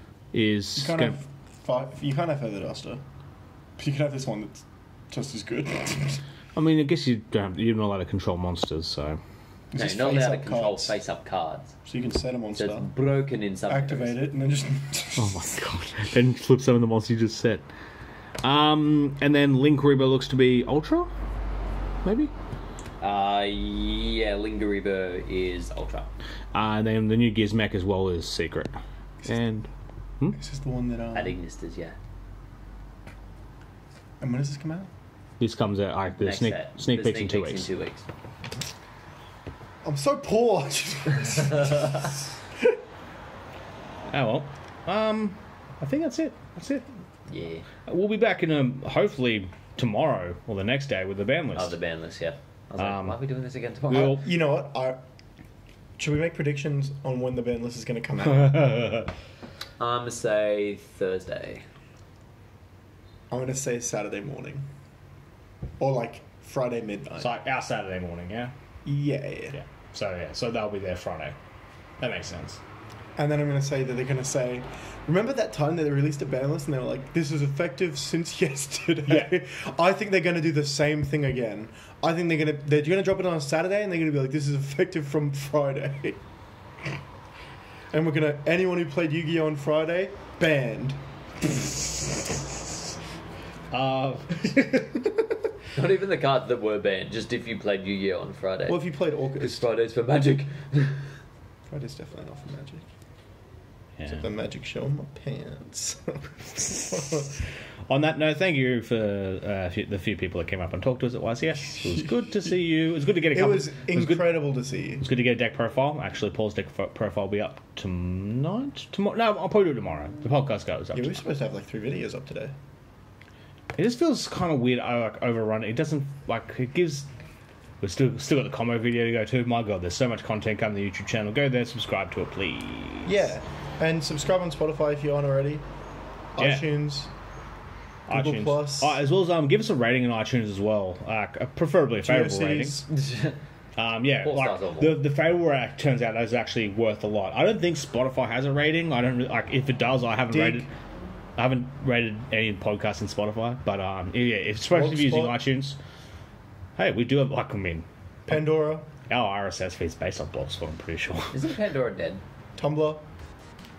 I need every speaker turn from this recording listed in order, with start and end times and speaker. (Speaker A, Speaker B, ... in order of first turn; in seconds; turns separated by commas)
Speaker A: 0.3-1.2, Speaker B: 0.8-3.0, Speaker B: 3.8-6.2, Speaker A: 6.5-9.2, Speaker B: 9.7-10.9, Speaker C: 9.7-11.7, Speaker B: 11.8-12.9, Speaker C: 12.6-14.2, Speaker B: 13.7-15.5, Speaker A: 15.2-17.6, Speaker A: 18.4-21.1, Speaker A: 22.0-22.3, Speaker C: 23.0-26.1, Speaker A: 26.5-29.7, Speaker B: 30.3-31.4, Speaker C: 31.1-32.0, Speaker B: 34.2-34.9, Speaker A: 35.4-37.7, Speaker C: 36.1-38.0, Speaker B: 39.8-42.6, Speaker A: 44.1-46.9, Speaker C: 47.3-47.6, Speaker A: 47.9-51.7, Speaker C: 51.5-54.2, Speaker A: 52.8-53.2, Speaker A: 53.9-54.2, Speaker B: 54.0-55.0, Speaker B: 56.0-58.9, Speaker A: 58.3-59.1, Speaker C: 59.8-61.6, Speaker B: 63.3-64.7, Speaker B: 65.8-67.3, Speaker A: 67.2-68.5, Speaker B: 68.8-69.5, Speaker A: 69.5-71.3, Speaker A: 72.0-72.6, Speaker B: 73.2-86.2, Speaker A: 79.1-79.4, Speaker B: 87.9-91.8, Speaker A: 93.7-95.2, Speaker C: 95.7-98.8, Speaker B: 98.7-99.7, Speaker C: 99.3-101.1, Speaker B: 101.7-102.8, Speaker A: 104.0-104.2, Speaker B: 104.1-107.4, Speaker A: 107.9-114.4, Speaker B: 111.8-112.1, Speaker B: 113.3-115.1, Speaker A: 115.0-121.2, Speaker B: 120.9-122.5, Speaker A: 123.8-127.1, Speaker A: 127.8-133.2, Speaker B: 133.0-135.6, Speaker B: 136.3-137.1, Speaker A: 136.4-136.6, Speaker A: 138.1-142.8, Speaker B: 138.1-139.0, Speaker B: 142.0-142.9, Speaker C: 142.9-143.4, Speaker A: 143.8-150.7, Speaker C: 144.2-145.0, Speaker B: 150.3-150.7, Speaker A: 151.4-155.8, Speaker B: 154.7-155.4, Speaker A: 156.8-161.5, Speaker B: 158.3-158.9, Speaker C: 161.3-162.2, Speaker B: 162.6-163.0